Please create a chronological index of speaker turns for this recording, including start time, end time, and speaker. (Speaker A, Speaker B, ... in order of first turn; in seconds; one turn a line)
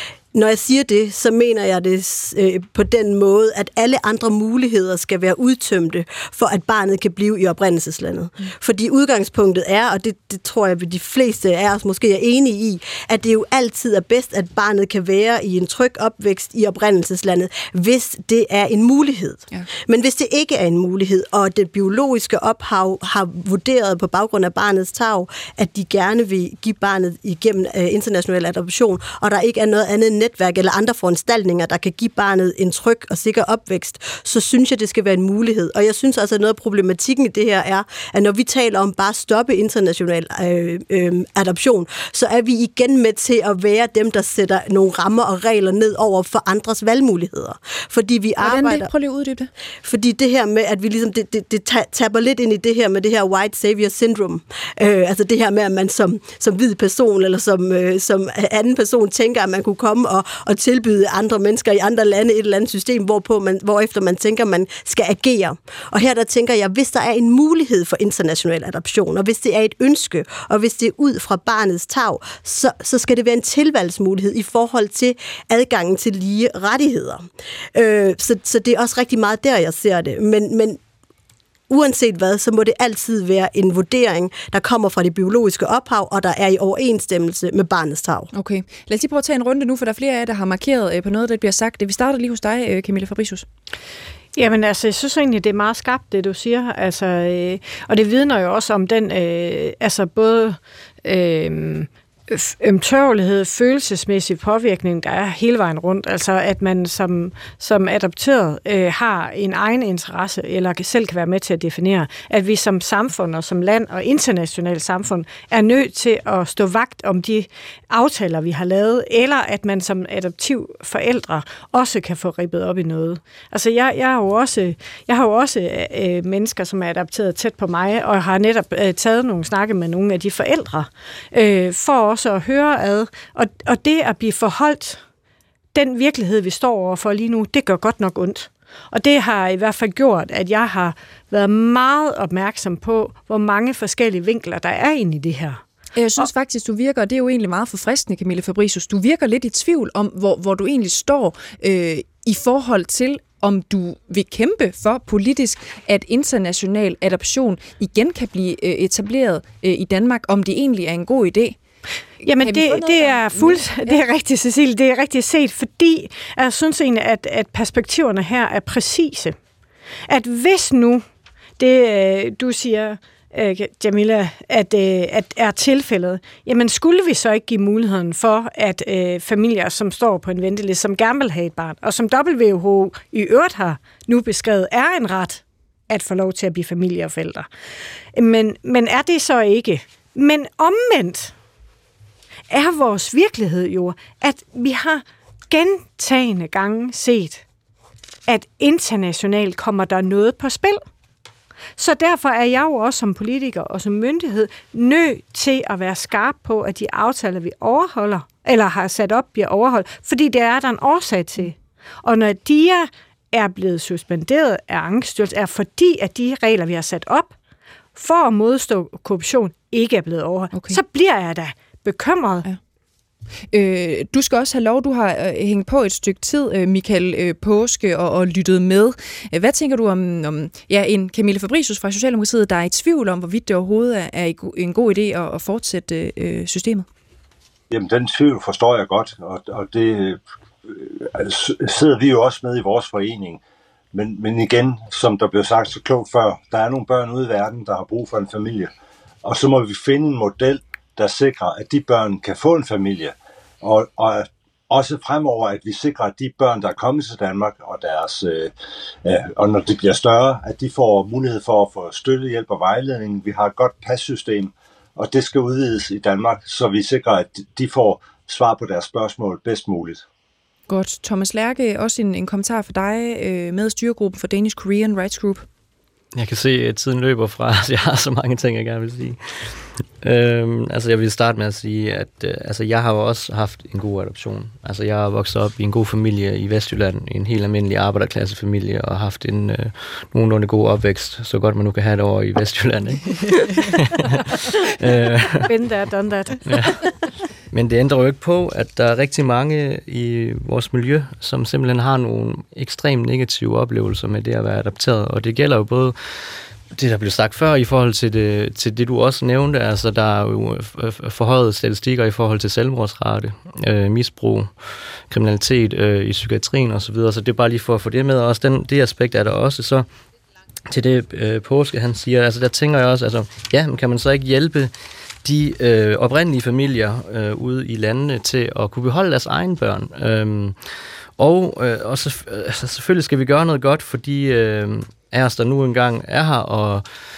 Speaker A: 0.3-48.9
Speaker B: 48.4-49.5
Speaker A: 49.8-80.8
Speaker A: 81.7-88.3
Speaker B: 88.3-93.5
Speaker C: 94.4-135.0
Speaker C: 135.7-145.6
Speaker B: 145.9-161.6
Speaker B: 162.2-164.0
Speaker C: 162.2-169.4
Speaker C: 170.1-171.1
Speaker C: 171.6-187.5
Speaker C: 188.1-191.3
Speaker C: 192.5-197.4
Speaker C: 198.3-200.8
Speaker C: 201.8-217.3
Speaker C: 218.0-222.5
Speaker B: 220.5-220.8
Speaker B: 223.5-236.9
Speaker D: 237.7-243.4
Speaker D: 243.9-248.7
Speaker D: 249.2-258.5
Speaker D: 259.1-270.0
Speaker B: 270.7-275.5
Speaker E: 276.1-295.5
Speaker C: 295.4-296.8
Speaker E: 296.4-296.7
Speaker E: 297.5-306.0
Speaker E: 306.7-314.5
Speaker E: 315.1-319.9
Speaker E: 320.7-324.7
Speaker E: 325.2-330.6
Speaker E: 331.2-336.9